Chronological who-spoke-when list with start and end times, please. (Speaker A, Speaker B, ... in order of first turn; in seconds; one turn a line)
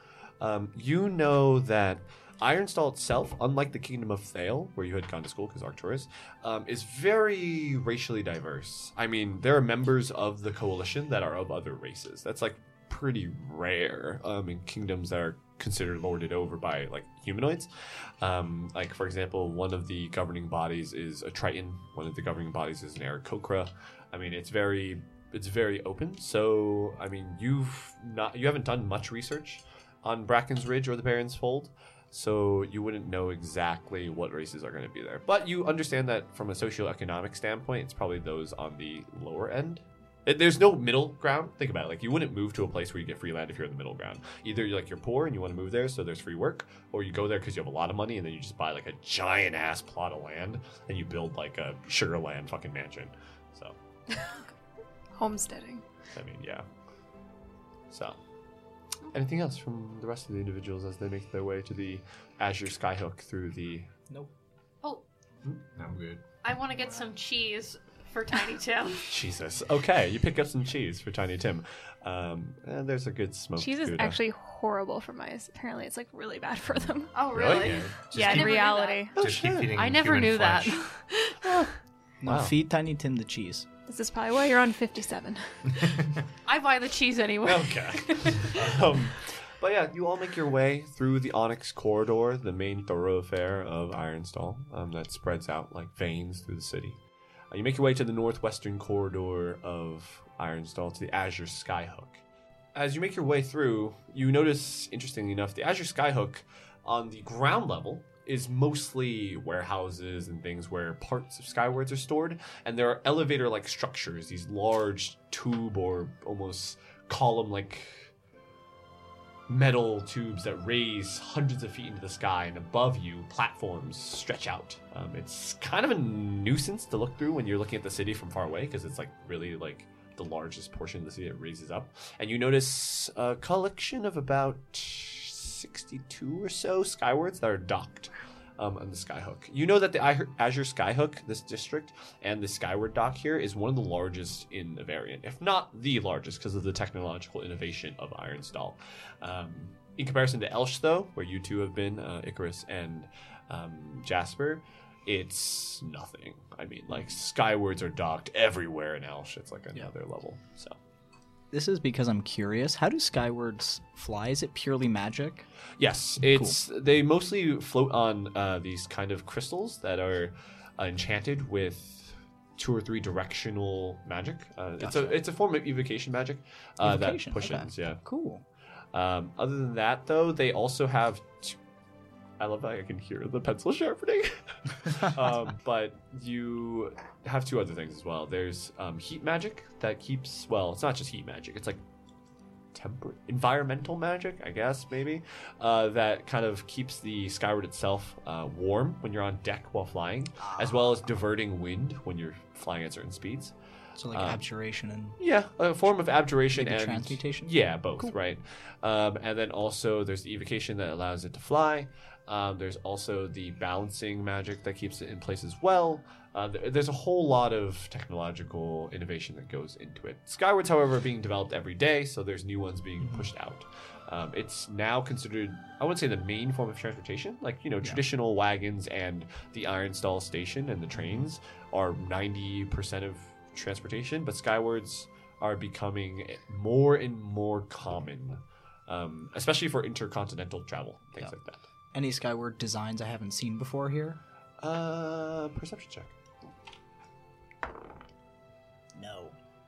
Speaker A: 0.4-17.7
Speaker A: 18.2-53.8
Speaker B: 55.1-55.8
Speaker A: 56.1-56.6
Speaker A: 57.9-58.2
Speaker A: 59.1-63.9
Speaker C: 65.8-66.2
Speaker D: 66.4-69.2
Speaker A: 69.1-74.2
Speaker B: 73.6-77.2
Speaker D: 77.1-79.1
Speaker C: 77.3-78.5
Speaker A: 77.4-77.7
Speaker B: 78.1-79.1
Speaker A: 79.1-79.7
Speaker C: 79.2-80.9
Speaker D: 79.7-81.5
Speaker E: 82.2-83.7
Speaker A: 82.2-82.5
Speaker B: 83.9-85.8
Speaker D: 86.4-88.4
Speaker A: 87.4-97.0
Speaker A: 97.5-102.2
Speaker A: 102.7-118.1
Speaker A: 119.5-160.8
Speaker E: 161.5-165.5
Speaker A: 165.8-178.0
Speaker E: 166.2-166.6
Speaker E: 174.8-175.2
Speaker E: 176.8-178.4
Speaker A: 178.9-181.6
Speaker A: 182.4-191.8
Speaker A: 192.7-203.5
Speaker E: 200.4-200.8
Speaker E: 203.9-205.2
Speaker A: 204.1-204.4
Speaker A: 205.2-241.6
Speaker E: 206.5-208.2
Speaker E: 223.0-223.3
Speaker E: 241.9-244.2
Speaker A: 244.6-246.1
Speaker E: 248.9-249.3